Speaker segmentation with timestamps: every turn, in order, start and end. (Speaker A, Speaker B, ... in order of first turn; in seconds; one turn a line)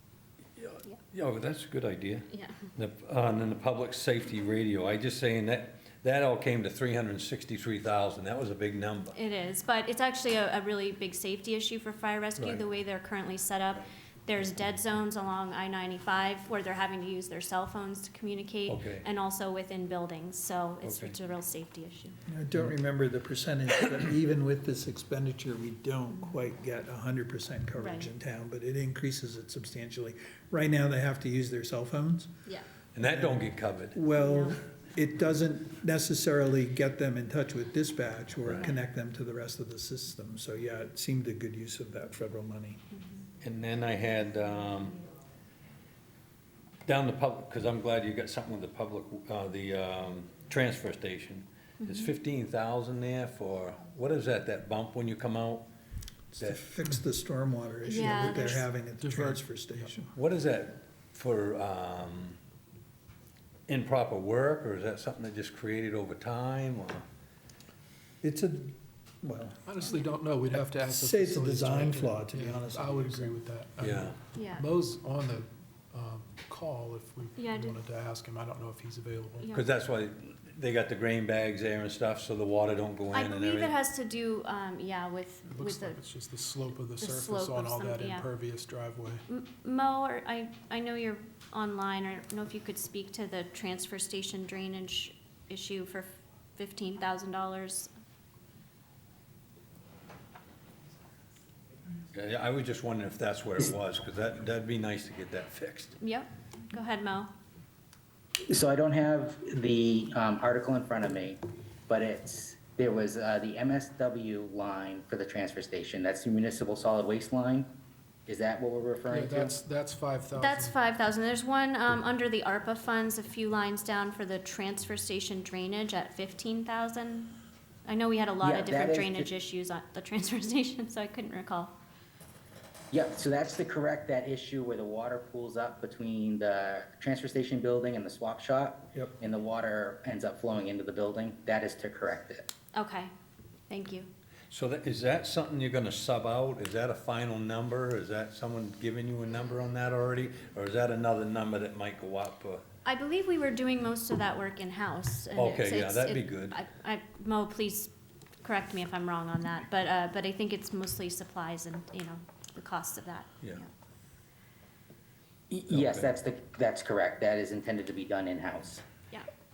Speaker A: 0.6-9.2
Speaker B: 2.3-2.7
Speaker B: 9.2-22.2
Speaker A: 12.4-12.6
Speaker A: 18.7-19.1
Speaker A: 20.8-21.1
Speaker C: 22.3-32.3
Speaker B: 27.8-28.1
Speaker A: 33.0-34.0
Speaker C: 33.0-42.8
Speaker B: 34.1-34.6
Speaker A: 43.4-45.0
Speaker A: 46.9-55.7
Speaker B: 51.8-52.1
Speaker C: 56.3-60.1
Speaker B: 57.9-58.6
Speaker D: 59.0-59.9
Speaker A: 60.1-62.4
Speaker A: 63.7-67.0
Speaker C: 68.2-69.6
Speaker D: 69.7-79.5
Speaker C: 70.9-73.3
Speaker A: 73.8-74.2
Speaker B: 74.3-74.7
Speaker B: 77.4-77.8
Speaker B: 79.4-79.7
Speaker A: 79.5-83.8
Speaker B: 83.1-86.0
Speaker D: 85.5-89.2
Speaker B: 87.0-88.3
Speaker B: 89.3-97.9
Speaker A: 102.1-106.0
Speaker B: 106.0-107.3
Speaker E: 108.5-117.7
Speaker E: 118.3-119.6
Speaker D: 119.1-120.8
Speaker B: 120.4-127.3
Speaker B: 127.9-131.7
Speaker E: 128.4-129.3
Speaker E: 132.9-142.5
Speaker B: 142.7-143.1
Speaker B: 143.7-144.1
Speaker A: 144.5-152.6
Speaker B: 152.8-157.9
Speaker A: 155.3-156.6
Speaker B: 158.4-163.6
Speaker E: 165.5-168.8
Speaker A: 165.7-166.1